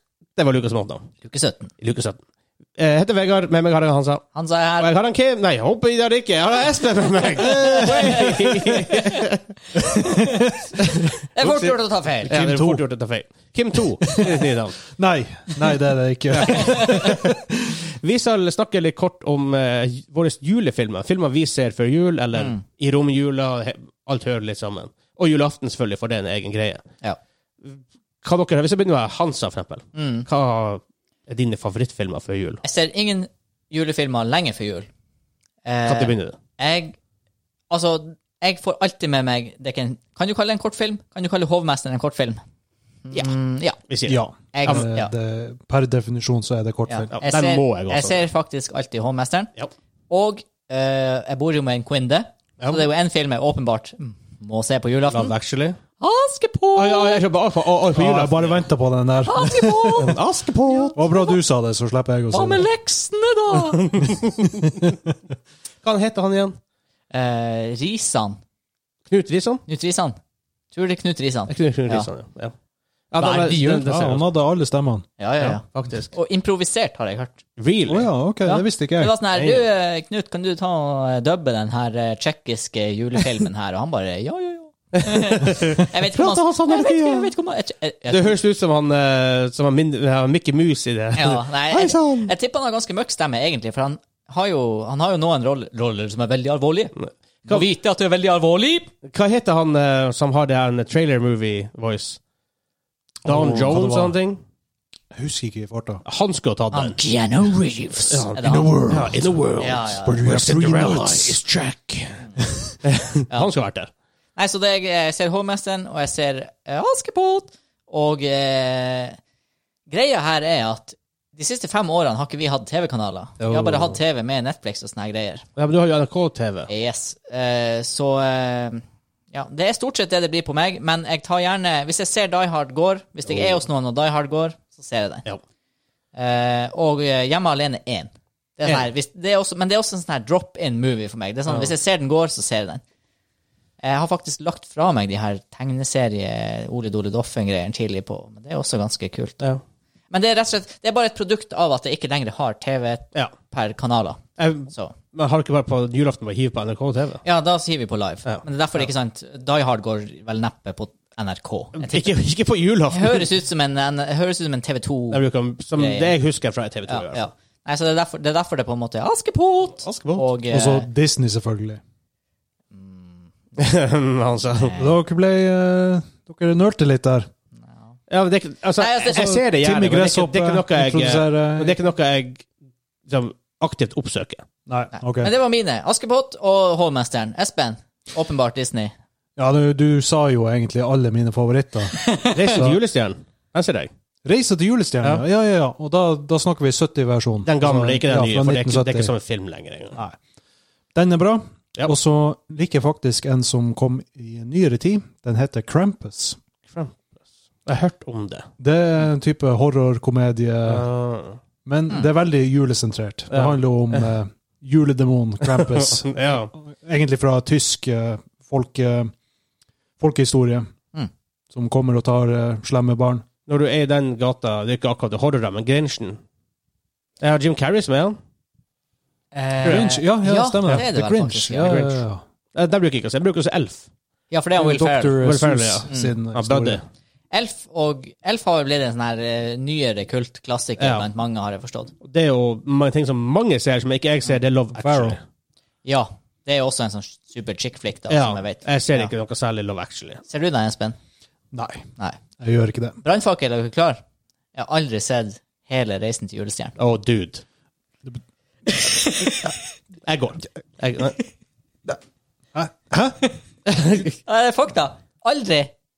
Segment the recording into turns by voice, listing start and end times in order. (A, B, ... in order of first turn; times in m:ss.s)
0:00.4-0:01.1 A
0:01.2-0:01.7 B
0:01.8-0:02.2 A
0:02.8-0:04.2 A
0:04.3-0:04.9 B
0:04.8-0:09.7 A
0:07.4-0:09.1 C
0:07.6-0:08.0 B
0:10.0-0:10.5 C
0:11.4-0:12.4 B
0:11.4-0:14.8 A
0:12.2-0:12.8 C
0:14.0-0:14.3 C
0:14.9-0:17.4 C
0:16.4-0:17.1 A
0:16.6-0:17.0 B
0:18.0-0:26.8 A
0:22.3-0:22.6 B
0:27.6-0:32.6 A
0:29.9-0:30.3 B
0:32.6-0:34.9 B
0:35.6-0:37.0 B
0:35.8-0:36.4 A
0:37.7-0:42.4 B
0:43.1-0:43.8 B
0:43.9-0:44.8 A
0:44.0-0:47.1 C
0:44.5-0:45.1 B
0:46.9-0:49.5 B
0:47.1-0:48.2 A
0:50.1-0:55.3 B
0:55.1-0:55.8 A
0:56.0-0:57.2 B
0:56.7-0:58.7 A
0:57.9-1:00.1 C
0:59.2-1:00.1 B
1:00.0-1:00.9 A
1:00.8-1:02.7 C
1:01.0-1:01.4 B
1:02.3-1:04.1 B
1:03.6-1:04.9 A
1:05.8-1:06.6 A
1:07.1-1:08.4 B
1:09.1-1:09.6 A
1:09.7-1:10.2 B
1:10.7-1:12.1 B
1:11.5-1:12.5 A
1:13.1-1:14.3 A
1:13.2-1:13.6 B
1:13.5-1:15.0 C
1:15.2-1:17.4 B
1:15.4-1:16.1 A
1:17.6-1:18.1 A
1:17.9-1:19.1 C
1:18.4-1:28.3 B
1:19.3-1:19.7 A
1:25.0-1:27.3 A
1:28.1-1:32.3 A
1:31.2-1:36.9 B
1:37.0-1:37.7 A
1:37.4-1:38.9 B
1:39.0-1:42.2 A
1:43.2-1:44.1 C
1:43.2-1:44.4 A
1:45.1-1:46.0 C
1:46.0-1:47.0 A
1:46.7-1:48.7 B
1:47.9-1:52.2 A
1:48.4-1:51.4 C
1:49.6-1:50.2 B
1:52.9-1:53.9 A
1:54.4-1:59.2 B
1:59.9-2:05.4 B
2:03.4-2:04.0 A
2:05.6-2:06.7 A
2:06.7-2:15.2 B
2:13.3-2:13.5 A
2:16.1-2:22.8 B
2:23.8-2:29.4 B
2:30.1-2:35.0 B
2:34.4-2:37.2 A
2:37.2-2:42.2 B
2:38.2-2:38.8 A
2:41.8-2:43.3 A
2:42.9-2:46.2 B
2:45.1-2:47.3 A
2:46.9-2:50.9 B
2:49.9-2:50.3 A
2:50.5-2:51.8 C
2:52.7-2:53.3 B
2:53.6-2:54.7 A
2:54.5-2:55.0 B
2:54.8-2:57.3 C
2:58.1-3:02.5 A
2:58.8-2:59.4 B
2:59.2-3:01.8 C
3:03.1-3:04.4 A
3:04.7-3:05.3 C
3:04.9-3:08.9 B
3:09.4-3:12.8 C
3:11.9-3:12.3 B
3:12.3-3:13.9 A
3:14.2-3:19.1 C
3:17.4-3:20.0 A
3:20.9-3:26.4 C
3:26.6-3:27.0 A
3:27.6-3:28.4 A
3:28.6-3:30.8 C
3:30.6-3:31.4 A
3:31.6-3:39.1 C
3:33.3-3:34.1 A
3:35.4-3:36.5 A
3:40.0-3:40.7 C
3:41.5-3:43.2 C
3:43.5-3:46.2 A
3:47.2-3:48.2 A
3:49.3-3:52.0 B
3:49.6-3:49.9 A
3:49.6-3:52.2 C
3:52.5-3:53.9 A
3:54.3-3:55.2 B
3:54.6-3:56.8 C
3:55.2-3:56.8 A
3:55.9-3:56.2 B
3:57.3-4:01.9 B
4:00.8-4:01.0 A
4:02.0-4:05.2 A
4:04.7-4:05.2 C
4:05.8-4:09.1 B
4:08.1-4:10.2 A
4:10.3-4:11.0 B
4:11.5-4:11.9 C
4:12.4-4:13.0 C
4:13.0-4:14.0 B
4:14.5-4:16.7 B
4:16.8-4:17.4 A
4:18.7-4:19.6 B
4:20.0-4:21.2 A
4:22.5-4:23.3 C
4:23.7-4:24.1 A
4:24.2-4:25.7 B